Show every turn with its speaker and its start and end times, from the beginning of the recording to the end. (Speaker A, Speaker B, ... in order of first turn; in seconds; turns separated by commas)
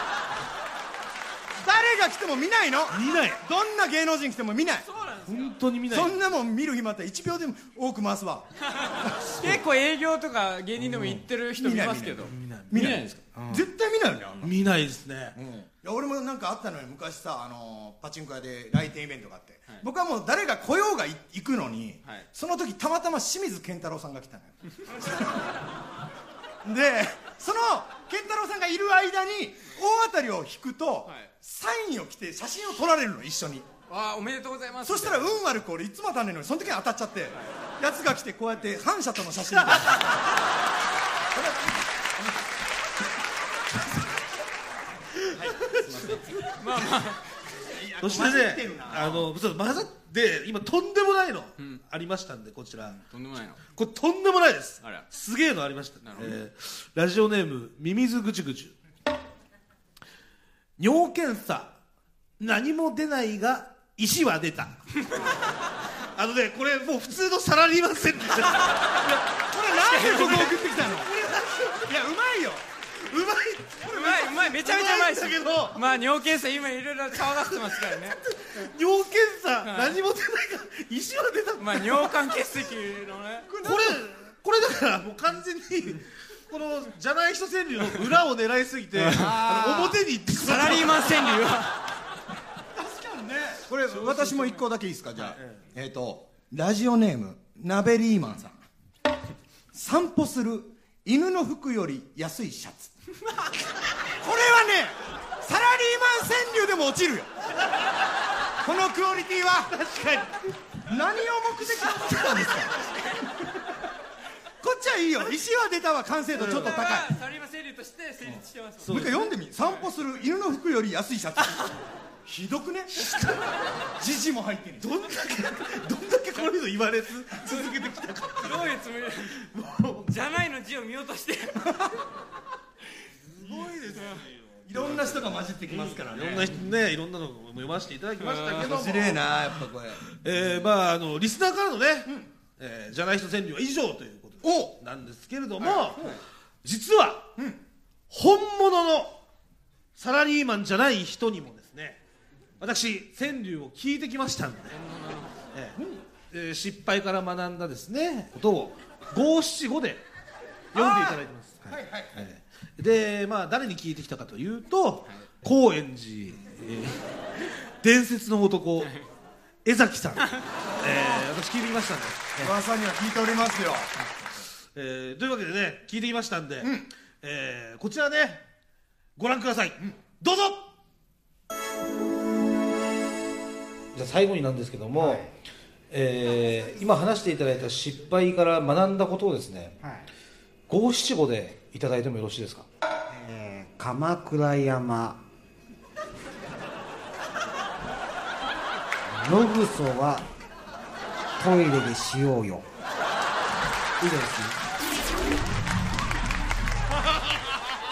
Speaker A: 1.5-4.8, Speaker B: 2.9-3.4, Speaker C: 4.9-5.5, Speaker B: 5.2-6.2, Speaker A: 5.9-9.6, Speaker C: 8.9-13.2, Speaker A: 10.8-14.6, Speaker B: 12.3-13.6, Speaker B: 14.4-15.4, Speaker A: 15.3-25.5, Speaker A: 26.6-33.7, Speaker C: 33.9-35.4, Speaker A: 34.8-40.2, Speaker B: 39.6-40.0, Speaker A: 41.3-41.8, Speaker B: 45.3-46.2, Speaker A: 45.3-46.9, Speaker C: 46.4-47.2, Speaker A: 47.5-49.3, Speaker B: 48.0-53.0, Speaker C: 53.0-53.6, Speaker B: 53.6-58.8, Speaker C: 56.0-56.4, Speaker B: 60.8-61.8, Speaker B: 62.4-64.8, Speaker B: 66.1-69.2, Speaker A: 69.3-72.6, Speaker C: 69.8-70.5, Speaker B: 70.0-71.9, Speaker B: 73.0-75.8, Speaker C: 73.8-78.2, Speaker B: 77.2-82.4, Speaker C: 79.6-79.9, Speaker C: 81.6-83.5, Speaker A: 83.5-84.0, Speaker B: 83.6-91.3, Speaker C: 89.0-89.4, Speaker A: 89.1-90.0, Speaker C: 90.3-91.8, Speaker A: 92.7-98.6, Speaker B: 93.9-94.6, Speaker B: 95.2-95.6, Speaker A: 99.7-102.9, Speaker A: 104.1-107.3, Speaker A: 108.6-109.8, Speaker B: 109.7-110.5, Speaker A: 110.8-112.8, Speaker C: 112.8-113.2, Speaker A: 114.6-117.1, Speaker B: 116.3-116.9, Speaker C: 116.4-119.0, Speaker A: 118.2-121.7, Speaker B: 118.8-119.3, Speaker A: 122.2-123.1, Speaker B: 123.0-123.5, Speaker A: 124.0-125.0, Speaker B: 124.8-128.7, Speaker C: 127.4-127.7, Speaker C: 128.3-129.4, Speaker B: 129.3-130.2, Speaker C: 130.1-131.8, Speaker B: 133.2-139.3, Speaker A: 134.7-136.6, Speaker C: 138.2-138.6, Speaker A: 138.5-140.0, Speaker B: 140.1-147.3, Speaker A: 144.4-144.8, Speaker B: 148.1-149.2, Speaker B: 149.9-152.0, Speaker B: 152.6-154.8, Speaker C: 154.7-155.3, Speaker B: 155.5-160.0, Speaker B: 160.7-167.0, Speaker A: 160.7-162.3, Speaker B: 167.8-168.9, Speaker B: 169.6-172.5, Speaker A: 172.4-174.0, Speaker B: 174.7-178.4, Speaker A: 176.6-176.9, Speaker B: 179.2-180.7, Speaker B: 183.9-185.3, Speaker D: 185.0-185.3, Speaker B: 185.9-189.8, Speaker B: 190.7-192.7, Speaker D: 193.1-195.2, Speaker D: 199.1-200.3, Speaker D: 201.4-202.7, Speaker D: 204.0-204.6